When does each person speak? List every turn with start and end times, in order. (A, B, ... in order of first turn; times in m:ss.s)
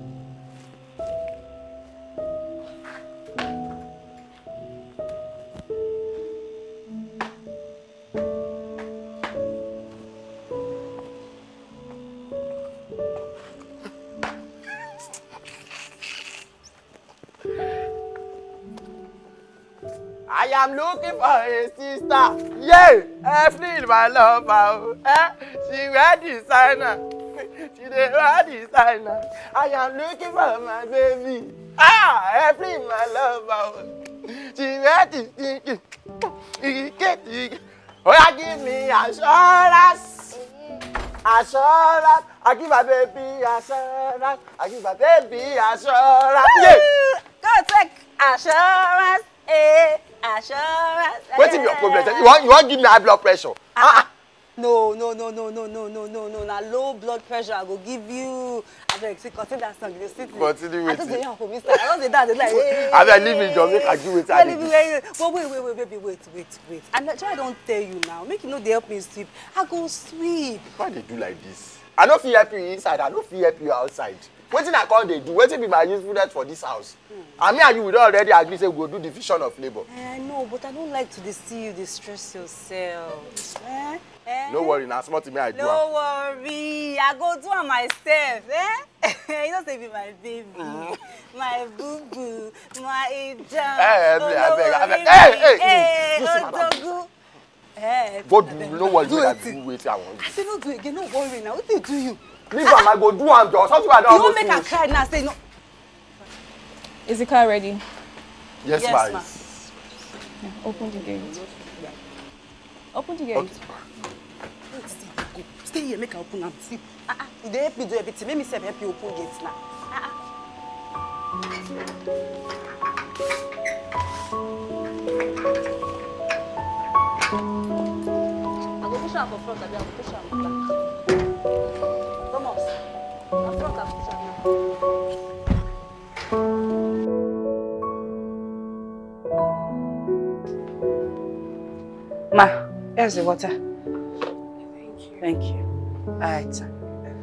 0:20.3-0:35.8 A
0:36.5-0:40.3 A
0:41.2-0:46.9 A
0:46.4-0:52.3 B
0:51.3-0:54.0 A
0:53.8-0:54.0 B
0:54.6-1:10.6 B
1:00.2-1:01.2 A
1:02.5-1:04.7 A
1:10.7-1:19.8 A
1:19.9-1:24.8 B
1:24.5-1:25.8 A
1:25.5-1:37.1 B
1:33.7-1:36.8 A
1:37.8-1:39.6 B
1:38.2-1:40.3 A
1:40.2-1:42.9 B
1:42.5-1:44.7 A
1:44.1-1:45.4 B
1:47.0-1:47.8 C
1:48.6-1:49.3 A
1:48.8-1:49.5 B
1:50.4-1:51.4 C
1:50.8-1:52.0 B
1:52.9-1:53.6 C
1:54.7-2:00.2 B
2:08.8-2:10.8 B
2:12.2-2:12.7 B
2:13.4-2:14.4 B
2:22.3-2:23.6 B
2:24.6-2:25.2 C
2:25.2-2:25.6 B
2:26.2-2:26.7 B